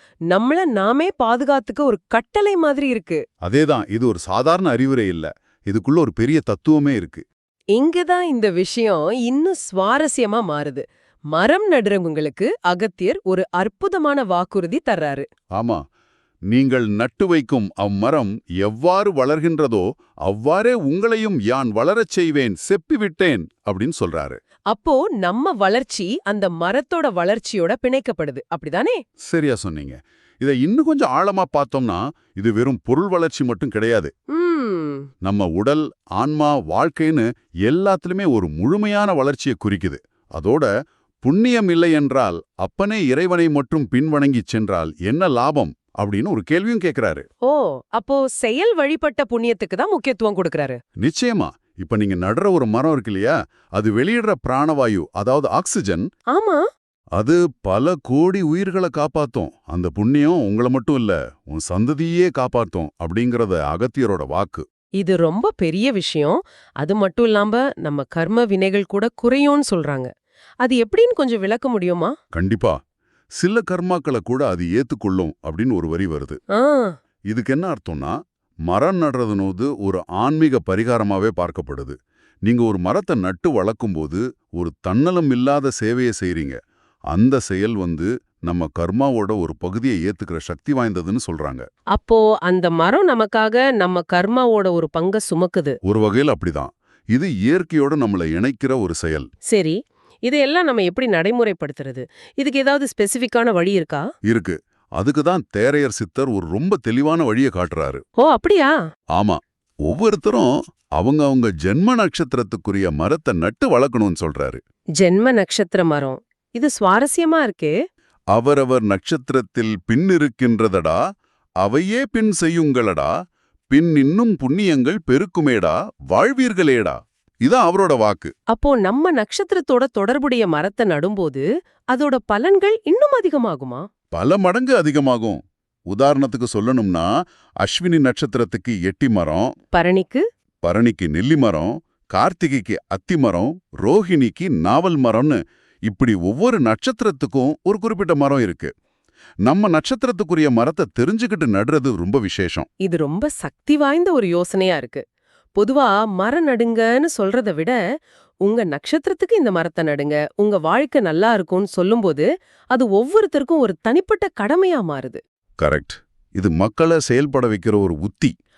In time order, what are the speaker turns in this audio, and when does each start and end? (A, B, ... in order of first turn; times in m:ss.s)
0:00.3-0:03.2 A
0:03.4-0:07.2 B
0:07.8-0:15.3 A
0:15.6-0:15.8 B
0:16.5-0:24.4 B
0:24.7-0:29.0 A
0:29.3-0:34.1 B
0:34.3-0:35.1 A
0:35.2-0:40.7 B
0:41.2-0:47.3 B
0:47.4-0:50.8 A
0:51.0-0:56.1 B
0:56.3-0:56.6 A
0:57.2-1:04.6 B
1:05.0-1:10.1 A
1:10.6-1:12.1 A
1:12.3-1:12.8 B
1:13.4-1:16.4 B
1:16.6-1:16.9 A
1:17.3-1:26.6 B
1:27.1-1:31.7 B
1:31.9-1:35.8 A
1:35.8-1:39.3 B
1:39.5-1:44.1 A
1:44.2-1:48.0 B
1:48.2-1:48.7 A
1:49.2-1:54.6 B
1:55.0-1:57.8 A
1:58.3-2:01.0 B
2:01.6-2:03.1 B
2:03.7-2:08.3 B
2:08.5-2:13.9 A
2:14.1-2:17.1 B
2:17.6-2:19.5 B
2:19.7-2:20.2 A
2:20.6-2:28.7 B
2:29.5-2:32.7 B
2:32.8-2:35.0 A
2:35.6-2:37.8 A
2:38.4-2:45.2 A
2:45.6-2:48.3 B